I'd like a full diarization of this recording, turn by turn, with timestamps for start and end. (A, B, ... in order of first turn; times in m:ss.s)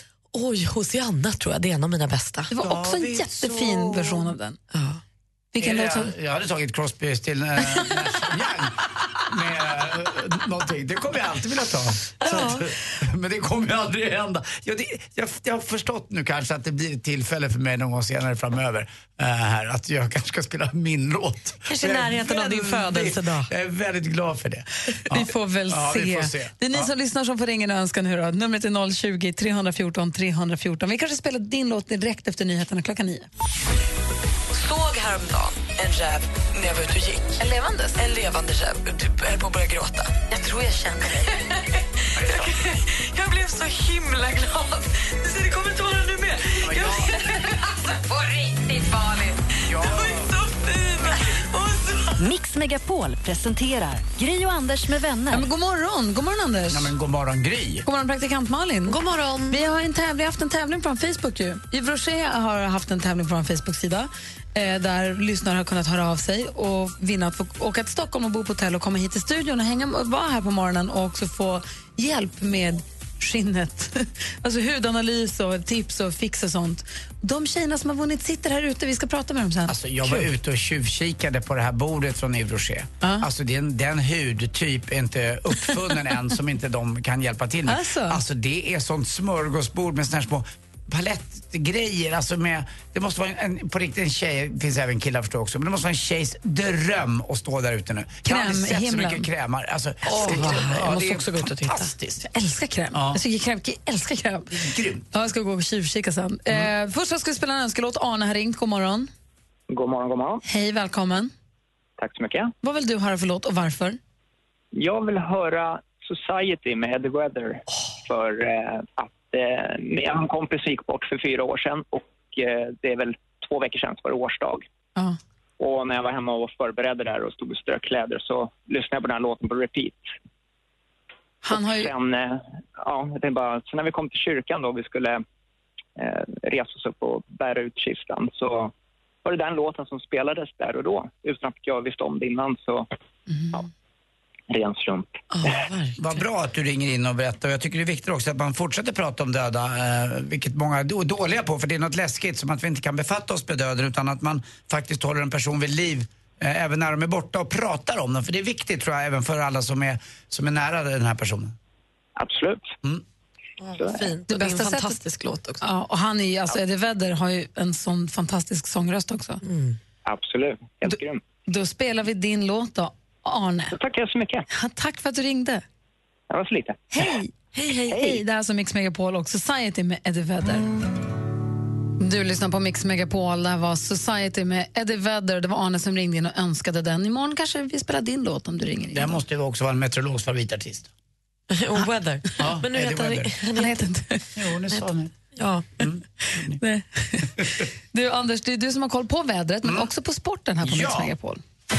0:00.3-0:02.5 A
0:02.5-0:04.6 B
0:02.6-0:04.2 C
0:04.7-0:05.0 A
0:05.5-0:06.1 B
0:05.6-0:26.9 C
0:12.2-0:12.6 A
0:21.7-0:23.5 A
0:25.1-0:33.3 B
0:34.5-0:37.4 A
0:37.4-0:38.0 B
0:38.0-0:41.6 A
0:42.1-0:52.2 A
0:46.7-0:47.1 C
0:49.7-0:50.2 C
0:52.2-0:55.5 D
0:55.3-0:56.9 B
0:56.7-0:57.8 C
0:57.8-0:59.0 B
0:58.9-0:59.6 A
0:59.5-1:20.3 B
1:19.7-1:42.2 C
1:27.7-1:28.2 B
1:38.2-1:39.3 B
1:40.0-1:41.9 A
1:40.1-1:40.7 B
1:42.3-1:44.5 B
1:42.9-1:43.2 C
1:44.5-1:45.0 C
1:45.1-1:49.1 B
1:49.7-1:50.4 E
1:50.4-1:51.3 B
1:52.0-1:52.5 E
1:52.6-1:54.0 B
1:54.7-2:04.6 E
2:05.6-2:10.0 E
2:11.4-2:11.9 B
2:11.5-2:15.2 E
2:16.0-2:18.7 E
2:19.2-2:22.9 E
2:23.3-2:23.6 B
2:24.5-2:25.1 E
2:25.4-2:26.0 A
2:26.0-2:41.6 C
2:42.2-2:42.7 E
2:43.6-2:45.6 A
2:44.3-2:45.0 B
2:45.6-2:49.4 B
2:49.4-2:49.8 A
2:50.0-2:51.2 E
2:51.5-2:53.7 B
2:53.7-2:54.4 E
2:54.5-2:55.6 B
2:56.3-2:56.8 E
2:56.9-2:57.3 B
2:57.5-2:58.1 A
2:57.9-3:00.7 B
3:02.0-3:09.2 B
3:08.9-3:10.9 C
3:11.5-3:13.9 A
3:12.4-3:13.4 C
3:13.6-3:14.2 B
3:14.4-3:15.1 C
3:15.4-3:15.6 A
3:15.8-3:16.6 C
3:16.6-3:17.3 B
3:17.9-3:21.4 B
3:20.6-3:21.1 C